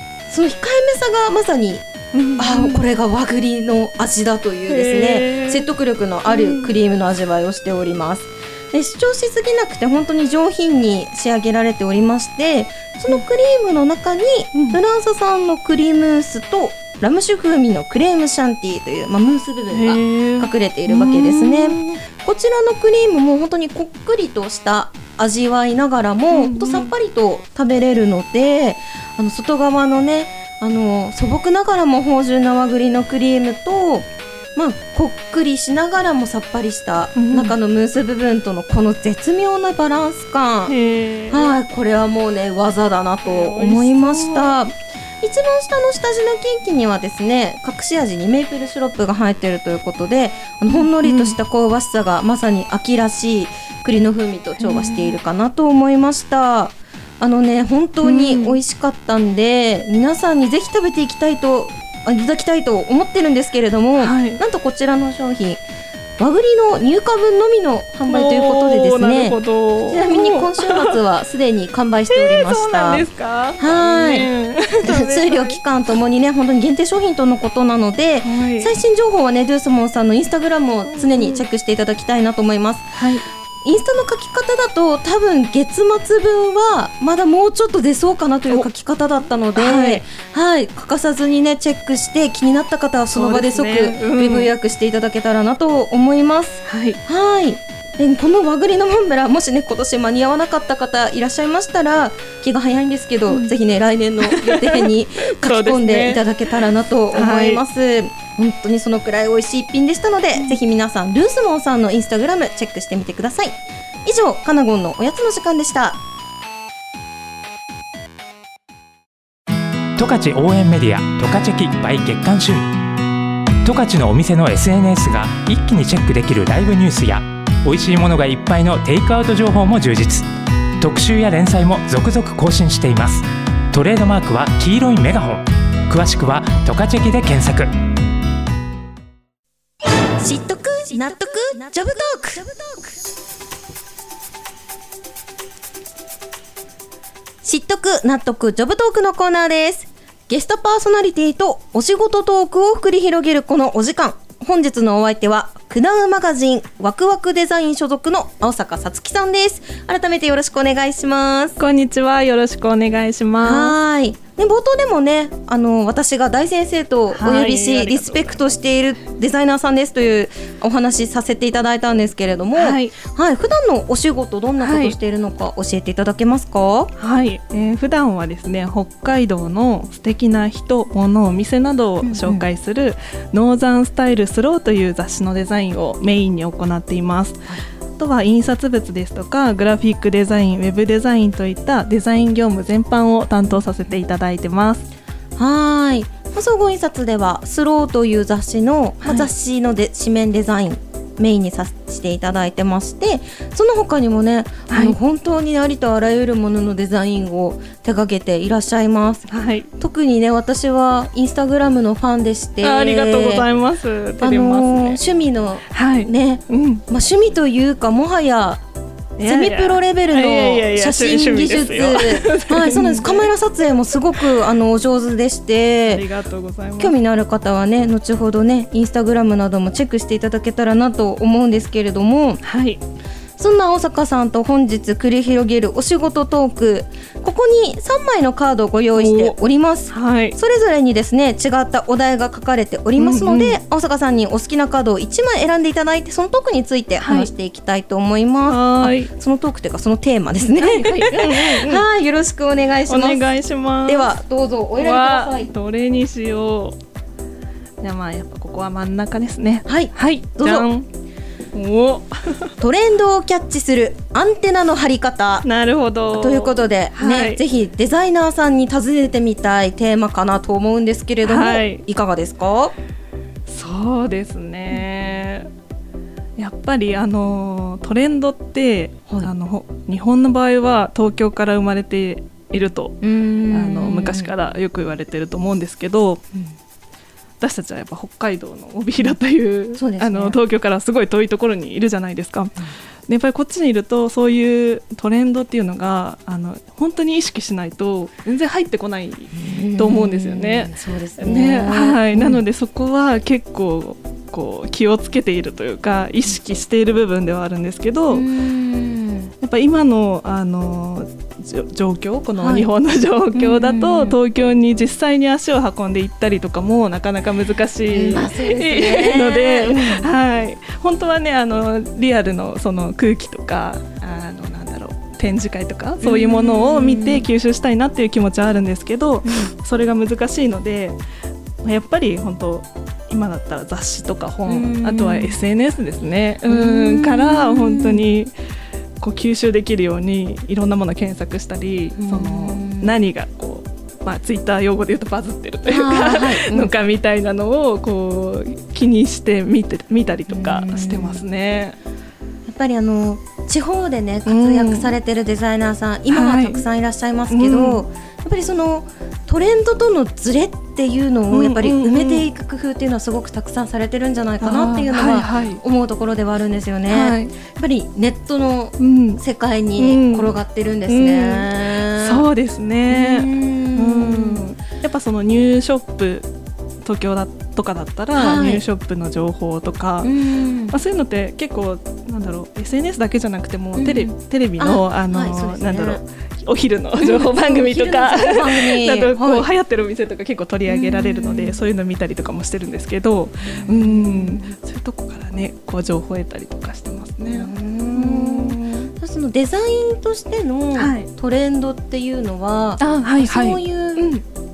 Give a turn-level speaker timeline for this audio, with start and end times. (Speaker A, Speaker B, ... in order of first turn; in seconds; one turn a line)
Speaker A: 0.3-1.9
Speaker B: 2.1-2.8
Speaker A: 2.4-40.7
Speaker B: 4.7-5.7
Speaker B: 6.3-6.7
Speaker B: 14.5-14.8
Speaker B: 19.7-22.0
Speaker B: 26.3-26.9
Speaker B: 37.1-37.5
Speaker B: 40.7-41.6
Speaker A: 41.3-65.6
Speaker B: 43.2-44.5
Speaker B: 50.7-51.4
Speaker B: 54.6-55.2
Speaker B: 58.0-58.6
Speaker B: 64.0-64.4
Speaker A: 66.2-73.0
Speaker B: 68.1-71.0
Speaker B: 72.1-75.6
Speaker A: 73.6-74.3
Speaker A: 74.8-83.0
Speaker B: 78.2-78.7
Speaker B: 80.9-81.4
Speaker B: 83.0-83.2
Speaker A: 83.6-116.0
Speaker B: 89.6-90.0
Speaker B: 93.1-94.5
Speaker B: 96.7-97.0
Speaker B: 103.3-103.5
Speaker B: 104.2-106.3
Speaker B: 107.1-107.6
Speaker C: 120.0-122.7
Speaker C: 123.6-130.3
Speaker C: 130.8-137.7
Speaker A: 140.2-142.6
Speaker A: 147.4-161.6
Speaker B: 161.6-163.8
Speaker A: 163.4-176.9
Speaker B: 167.1-168.4
Speaker B: 172.6-172.9
Speaker B: 174.6-175.0
Speaker B: 177.0-194.9
Speaker A: 182.0-182.4
Speaker A: 195.4-213.5
Speaker B: 199.0-199.3
Speaker B: 204.7-205.0
Speaker B: 209.3-209.7
Speaker B: 212.6-215.0
Speaker A: 214.2-218.6
Speaker B: 215.7-216.8
Speaker B: 219.2-223.3
Speaker A: 219.2-226.1
Speaker B: 225.9-227.0
Speaker A: 226.8-232.4
Speaker B: 232.4-232.8
Speaker A: 233.4-255.5
Speaker B: 239.0-239.4
Speaker B: 239.9-240.4
Speaker B: 243.0-243.6
Speaker B: 247.0-247.3
Speaker B: 248.5-249.1
Speaker B: 250.6-251.8
Speaker B: 252.9-254.1
Speaker B: 254.8-256.8
Speaker B: 257.8-260.9
Speaker A: 259.6-260.7
Speaker B: 261.5-262.5
Speaker A: 262.6-265.5
Speaker B: 265.4-267.4
Speaker A: 266.1-272.7
Speaker B: 271.2-271.8
Speaker B: 273.5-275.5
Speaker B: 276.4-286.2
Speaker A: 283.0-284.3
Speaker B: 287.4-292.6
Speaker A: 289.8-290.4
Speaker B: 293.1-308.3
Speaker A: 299.3-302.4
Speaker A: 308.1-309.3
Speaker B: 309.4-331.0
Speaker A: 312.4-312.7
Speaker A: 313.4-314.2
Speaker A: 317.9-320.1
Speaker A: 326.0-327.2
Speaker A: 329.2-329.5
Speaker B: 331.6-338.3
Speaker A: 334.5-335.4
Speaker A: 336.5-338.0
Speaker B: 339.0-351.8
Speaker A: 342.0-342.9
Speaker A: 345.6-346.7
Speaker A: 350.3-351.2
Speaker A: 352.5-372.2
Speaker B: 354.3-354.9
Speaker B: 356.1-356.6
Speaker B: 357.3-357.8
Speaker B: 361.3-362.2
Speaker B: 364.4-365.6
Speaker B: 366.9-367.3
Speaker B: 368.8-369.2
Speaker B: 369.8-370.3
Speaker B: 370.9-376.3
Speaker A: 372.9-374.4
Speaker B: 376.8-380.1
Speaker A: 378.2-378.6
Speaker A: 380.0-380.8
Speaker B: 380.7-398.6
Speaker A: 383.8-386.0
Speaker A: 387.0-389.5
Speaker A: 390.7-391.6
Speaker A: 393.4-394.5
Speaker A: 397.2-404.1
Speaker B: 400.8-401.1
Speaker B: 402.8-404.2